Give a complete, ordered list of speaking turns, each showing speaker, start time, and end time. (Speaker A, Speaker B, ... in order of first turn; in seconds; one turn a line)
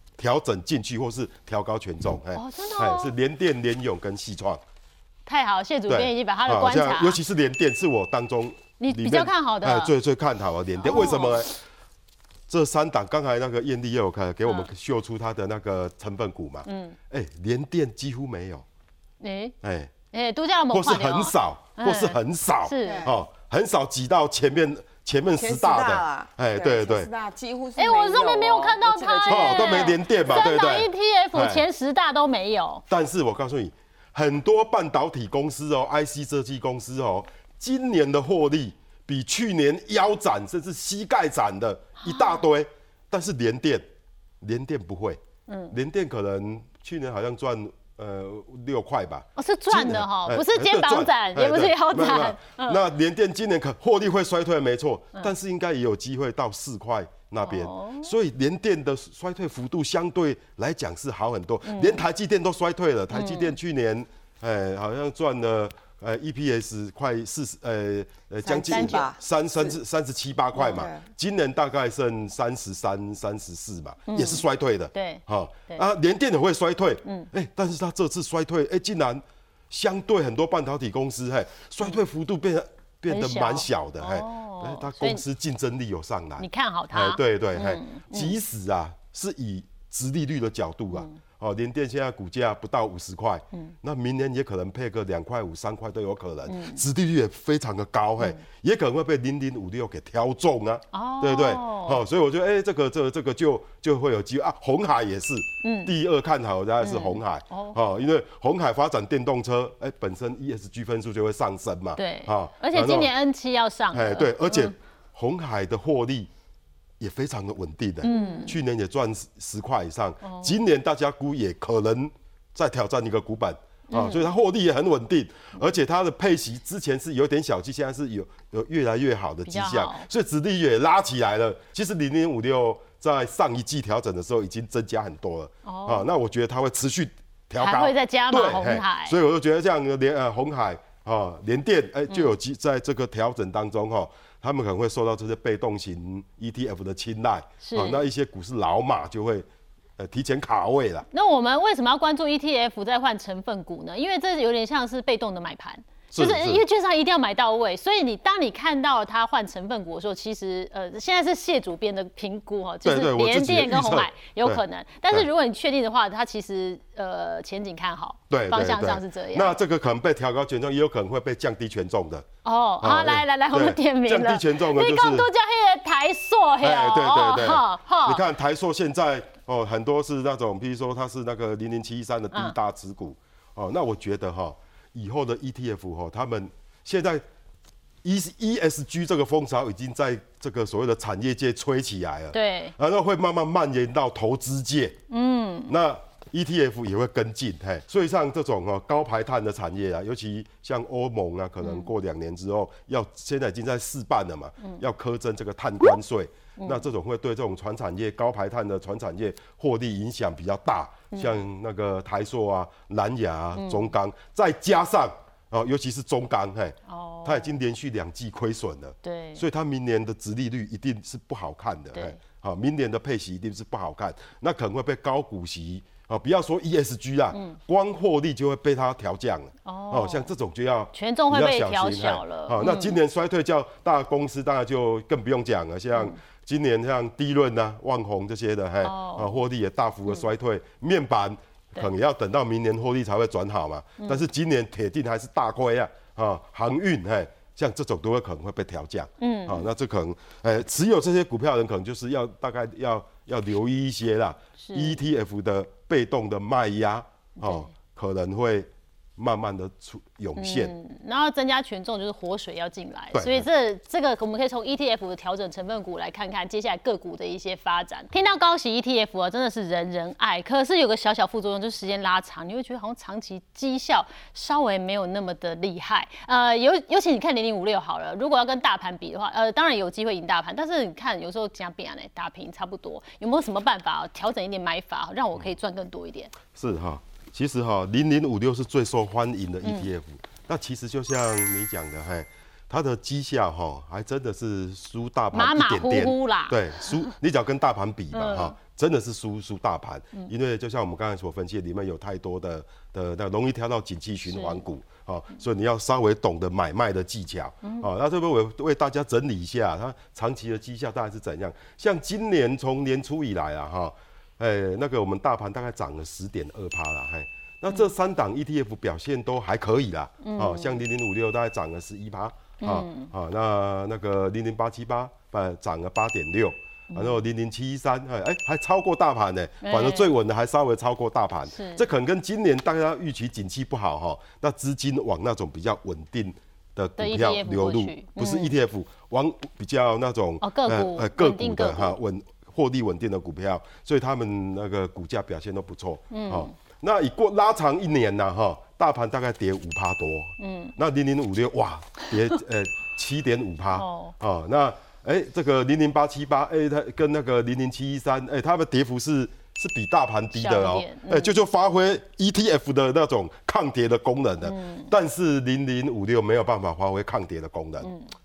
Speaker A: 0.2-4.6
Speaker B: 2.3-3.1
Speaker B: 5.2-7.2
Speaker A: 5.9-11.5
Speaker B: 8.8-9.9
Speaker B: 10.8-11.4
Speaker A: 12.5-18.6
Speaker B: 16.6-17.0
Speaker B: 19.2-19.5
Speaker A: 19.6-19.9
Speaker B: 20.1-23.1
Speaker A: 20.7-27.1
Speaker C: 22.8-23.2
Speaker C: 25.4-30.0
Speaker B: 27.8-32.8
Speaker A: 29.3-31.6
Speaker A: 32.9-43.8
Speaker B: 42.0-42.4
Speaker A: 44.4-45.2
Speaker B: 45.5-45.7
Speaker A: 45.7-113.1
Speaker B: 49.4-52.8
Speaker B: 57.4-58.1
Speaker B: 61.6-62.0
Speaker B: 63.1-63.5
Speaker C: 68.4-69.8
Speaker B: 68.7-69.1
Speaker C: 70.6-71.1
Speaker B: 74.1-75.8
Speaker B: 83.1-85.2
Speaker B: 86.4-88.3
Speaker B: 90.9-91.2
Speaker B: 96.5-96.8
Speaker B: 100.9-102.0
Speaker B: 105.6-105.9
Speaker B: 106.8-107.8
Speaker B: 112.0-114.7
Speaker A: 113.9-116.3
Speaker A: 117.0-149.4
Speaker B: 118.0-118.5
Speaker B: 120.2-120.5
Speaker B: 123.9-124.3
Speaker B: 129.4-130.1
Speaker B: 135.6-136.1
Speaker B: 137.6-139.2
Speaker B: 147.6-148.0
Speaker A: 150.0-151.1
Speaker B: 151.1-169.5
Speaker A: 156.1-156.6
Speaker A: 162.8-165.2
Speaker A: 168.3-172.2
Speaker B: 172.4-178.2
Speaker A: 172.8-175.3
Speaker A: 176.6-187.2
Speaker A: 188.0-194.9
Speaker B: 192.3-192.7
Speaker B: 195.1-195.7
Speaker A: 195.7-260.7
Speaker B: 201.6-201.9
Speaker B: 206.6-206.8
Speaker B: 213.6-213.9
Speaker B: 216.9-217.5
Speaker B: 219.0-219.4
Speaker B: 221.9-222.2
Speaker B: 227.3-227.6
Speaker B: 229.6-230.3
Speaker B: 230.9-232.9
Speaker B: 238.8-239.4
Speaker B: 249.2-249.7
Speaker B: 254.6-255.0
Speaker B: 257.4-257.7
Speaker B: 260.4-286.3
Speaker A: 263.1-263.4
Speaker A: 286.5-367.9
Speaker B: 295.3-296.9
Speaker B: 298.1-298.5
Speaker B: 304.3-304.6
Speaker B: 307.6-307.9
Speaker B: 320.2-320.8
Speaker B: 322.6-323.1
Speaker B: 326.9-327.2
Speaker B: 329.6-330.1
Speaker B: 331.5-331.8
Speaker B: 337.0-338.5
Speaker B: 340.4-341.9
Speaker B: 346.1-346.5
Speaker B: 350.4-350.7
Speaker B: 353.8-354.1
Speaker B: 360.3-361.4
Speaker B: 364.4-364.9
Speaker B: 367.8-368.1